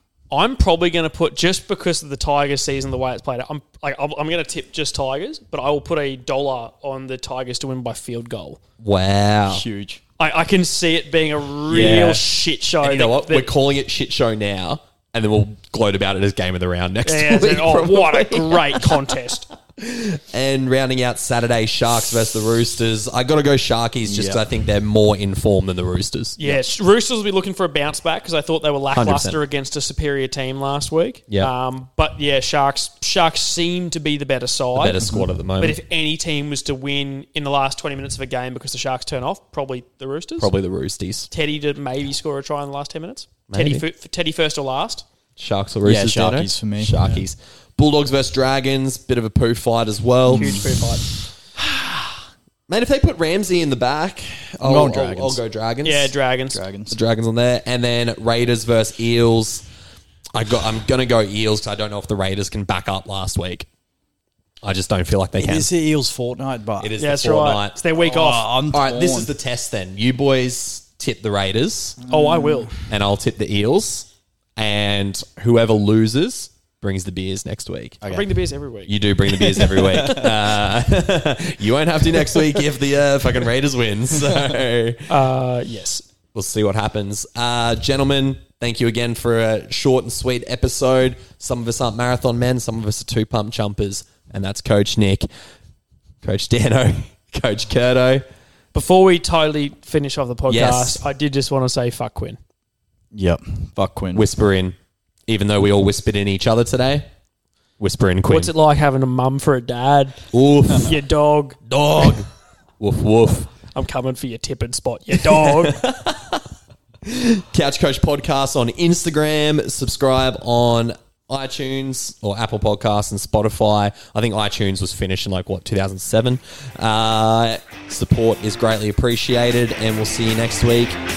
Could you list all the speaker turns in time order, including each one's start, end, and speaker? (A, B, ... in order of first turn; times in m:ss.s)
0:00.3-0:08.6 A
0:08.8-0:09.6 B
0:09.5-0:10.0 C
0:10.2-0:13.5 A
0:11.7-0:12.2 B
0:12.8-0:19.2 B
0:17.0-0:19.5 A
0:19.8-0:26.6 B
0:24.0-0:24.4 C
0:26.4-0:35.0 A
0:28.9-0:29.4 B
0:34.7-0:35.8 B
0:35.6-0:40.5 A
0:40.4-0:41.3 B
0:41.3-0:45.0 A
0:43.5-0:43.8 B
0:45.4-0:50.7 B
0:45.8-0:47.0 C
0:50.2-0:50.7 C
0:50.4-0:51.0 A
0:51.6-0:56.1 B
0:54.6-0:55.4 C
0:55.8-0:56.6 A
0:56.5-0:57.0 C
0:56.9-0:59.6 B
1:00.3-1:03.7 B
1:04.6-1:05.7 B
1:05.4-1:06.9 C
1:06.8-1:07.8 B
1:07.0-1:08.5 A
1:08.0-1:09.3 C
1:08.7-1:12.0 B
1:12.0-1:12.7 C
1:12.0-1:12.7 A
1:12.9-1:18.0 B
1:18.0-1:18.3 C
1:18.0-1:18.9 A
1:18.9-1:25.1 B
1:19.5-1:20.4 C
1:25.1-1:26.0 A
1:26.3-1:35.3 B
1:36.2-1:38.2 B
1:38.7-1:42.4 A
1:40.5-1:41.0 B
1:43.1-1:44.2 C
1:44.1-1:44.8 B
1:45.3-1:47.1 B
1:47.8-1:48.5 B
1:48.3-1:50.2 A
1:50.3-1:50.9 B
1:50.8-1:51.6 A
1:51.7-1:52.3 B
1:52.8-1:53.5 B
1:53.7-1:55.8 A
1:55.2-1:56.4 B
1:57.0-2:11.0 B